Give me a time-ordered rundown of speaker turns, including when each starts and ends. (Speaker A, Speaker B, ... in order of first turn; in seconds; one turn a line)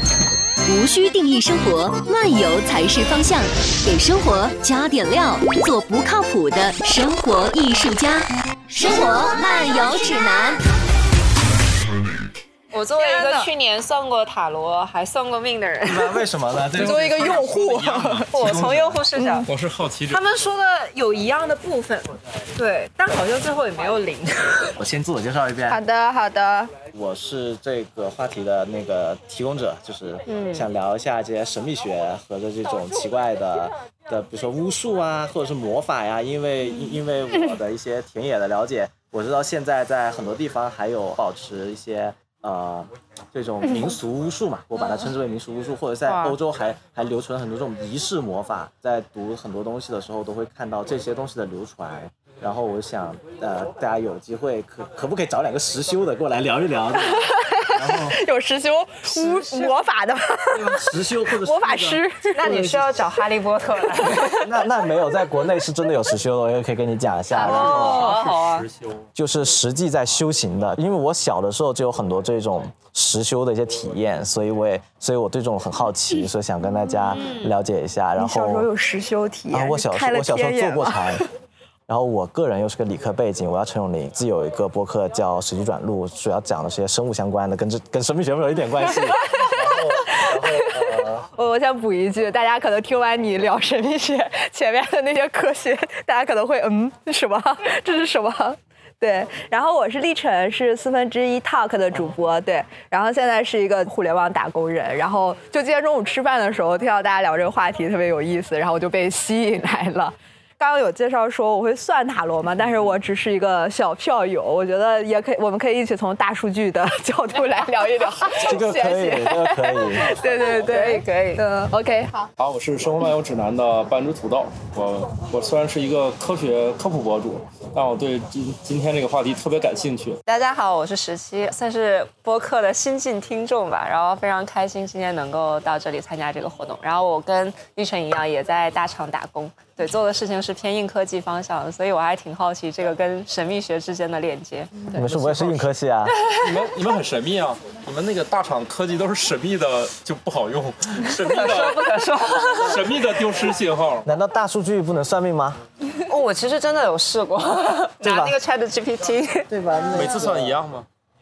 Speaker A: 0.7-10.6
Speaker B: 12.7-16.3
Speaker C: 12.9-13.5
Speaker D: 15.8-17.5
Speaker C: 16.7-19.4
Speaker E: 16.8-20.2
Speaker B: 18.3-19.5
Speaker B: 20.1-24.7
Speaker D: 24.8-25.8
Speaker C: 25.7-26.7
Speaker D: 26.9-58.2
Speaker B: 30.3-30.7
Speaker B: 46.1-46.4
Speaker C: 57.1-62.5
Speaker B: 59.1-59.7
Speaker D: 60.5-62.8
Speaker B: 62.3-64.5
Speaker D: 64.4-68.1
Speaker B: 67.3-68.7
Speaker E: 67.5-69.0
Speaker C: 67.5-67.8
Speaker D: 69.1-78.7
Speaker B: 77.1-77.5
Speaker C: 78.2-81.2
Speaker D: 79.5-81.2
Speaker D: 81.9-91.2
Speaker C: 89.3-122.3
Speaker D: 118.4-120.1
Speaker B: 120.6-121.4
Speaker E: 122.4-130.2
Speaker B: 130.2-144.9
Speaker D: 144.9-146.2
Speaker E: 144.9-145.7
Speaker E: 146.4-154.1
Speaker B: 151.1-153.0
Speaker D: 154.0-155.6
Speaker B: 156.0-159.5
Speaker D: 158.0-158.3
Speaker D: 159.5-160.6
Speaker E: 159.9-160.9